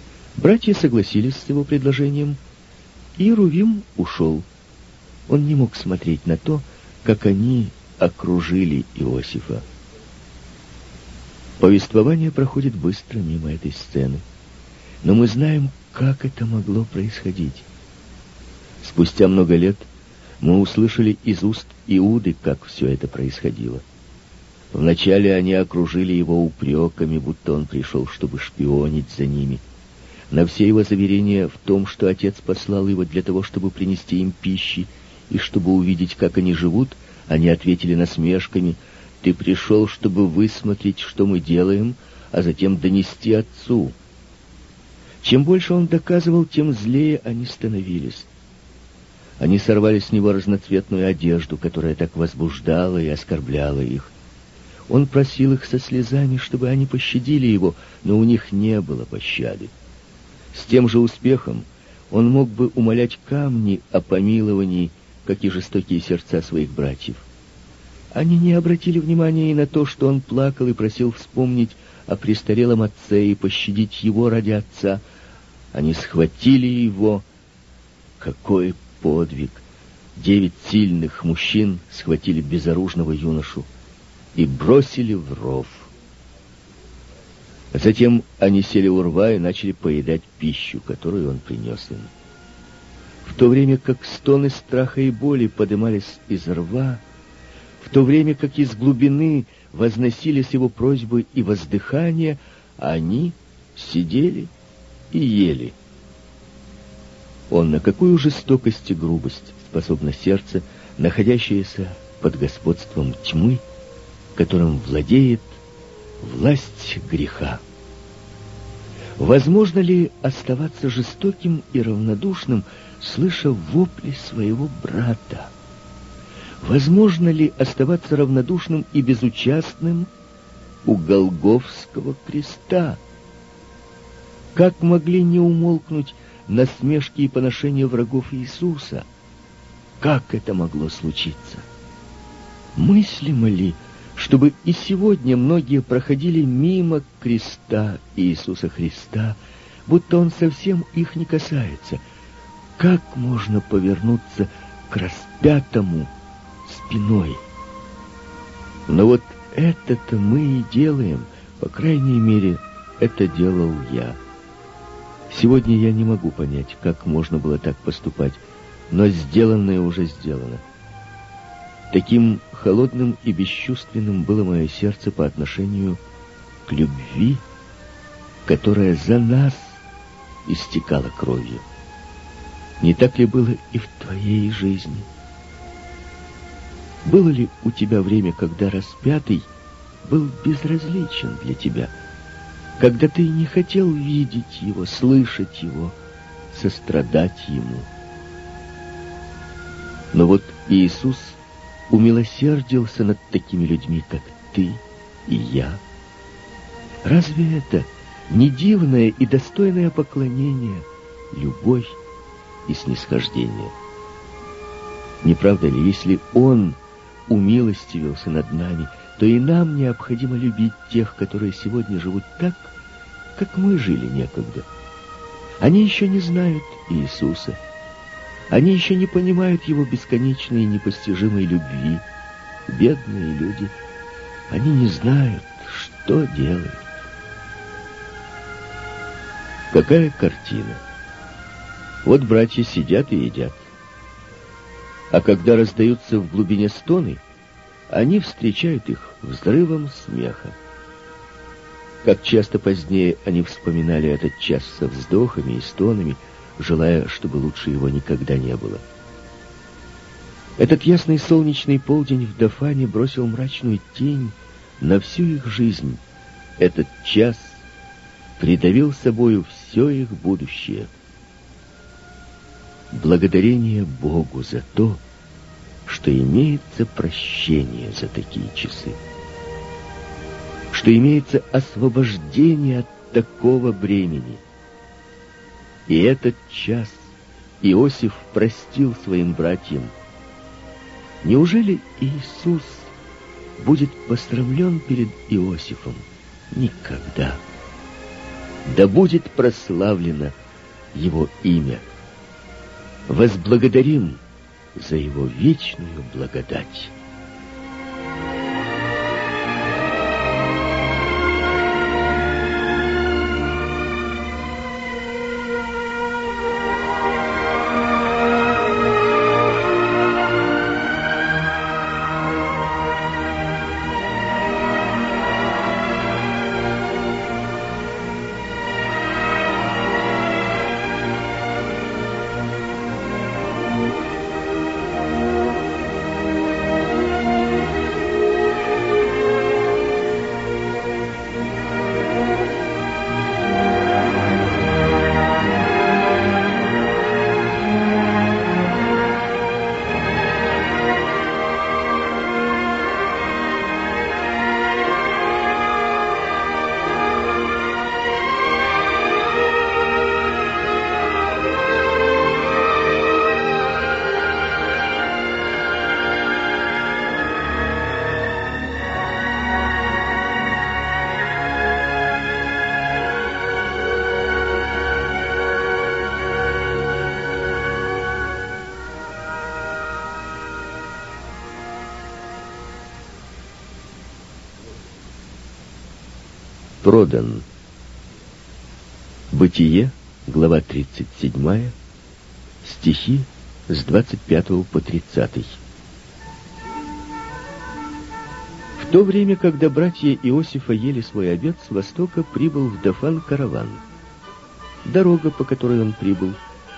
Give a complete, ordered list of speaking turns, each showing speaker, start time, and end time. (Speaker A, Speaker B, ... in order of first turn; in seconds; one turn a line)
Speaker A: 0.4-2.4
Speaker A: 3.2-4.5
Speaker A: 5.3-9.6
Speaker A: 11.6-14.2
Speaker A: 15.0-17.6
Speaker A: 18.8-19.9
Speaker A: 20.4-23.8
Speaker A: 24.7-29.6
Speaker A: 30.3-44.0
Speaker A: 45.2-48.3
Speaker A: 49.4-54.1
Speaker A: 54.9-59.7
Speaker A: 60.5-67.3
Speaker A: 68.1-75.0
Speaker A: 75.7-77.2
Speaker A: 78.2-79.6
Speaker A: 80.2-83.7
Speaker A: 84.3-85.9
Speaker A: 87.7-92.1
Speaker A: 93.2-97.0
Speaker A: 97.8-104.5
Speaker A: 105.1-105.8
Speaker A: 107.5-113.6
Speaker A: 114.3-115.6
Speaker A: 116.2-117.6
Speaker A: 119.2-125.5
Speaker A: 126.6-130.1
Speaker A: 130.8-133.0
Speaker A: 134.5-139.1
Speaker A: 140.0-141.7
Speaker A: 142.8-152.0
Speaker A: 152.8-156.1
Speaker A: 156.6-157.4
Speaker A: 158.9-164.2
Speaker A: 165.3-170.6
Speaker A: 171.9-176.0
Speaker A: 176.7-177.4
Speaker A: 178.4-179.8
Speaker A: 180.4-181.6
Speaker A: 182.8-185.1
Speaker A: 187.0-189.5
Speaker A: 190.0-191.9
Speaker A: 192.8-195.9
Speaker A: 196.5-197.9
Speaker A: 200.1-205.8
Speaker A: 207.0-212.0
Speaker A: 212.7-213.7
Speaker A: 215.2-222.7
Speaker A: 223.3-224.7
Speaker A: 225.6-227.6
Speaker A: 228.5-232.0
Speaker A: 232.7-233.7
Speaker A: 234.5-236.8
Speaker A: 239.7-240.8
Speaker A: 242.0-243.7
Speaker A: 245.1-247.2
Speaker A: 247.9-250.6
Speaker A: 252.0-258.8
Speaker A: 260.6-266.0
Speaker A: 266.6-267.6
Speaker A: 268.4-270.9
Speaker A: 272.9-275.0
Speaker A: 275.9-279.0
Speaker A: 280.7-284.4
Speaker A: 285.9-289.9
Speaker A: 291.2-292.9
Speaker A: 293.6-297.4
Speaker A: 298.6-300.3
Speaker A: 300.9-301.9
Speaker A: 303.1-304.2
Speaker A: 304.7-306.9
Speaker A: 386.8-387.4
Speaker A: 389.3-391.7
Speaker A: 392.6-395.6
Speaker A: 398.8-403.8
Speaker A: 404.8-406.4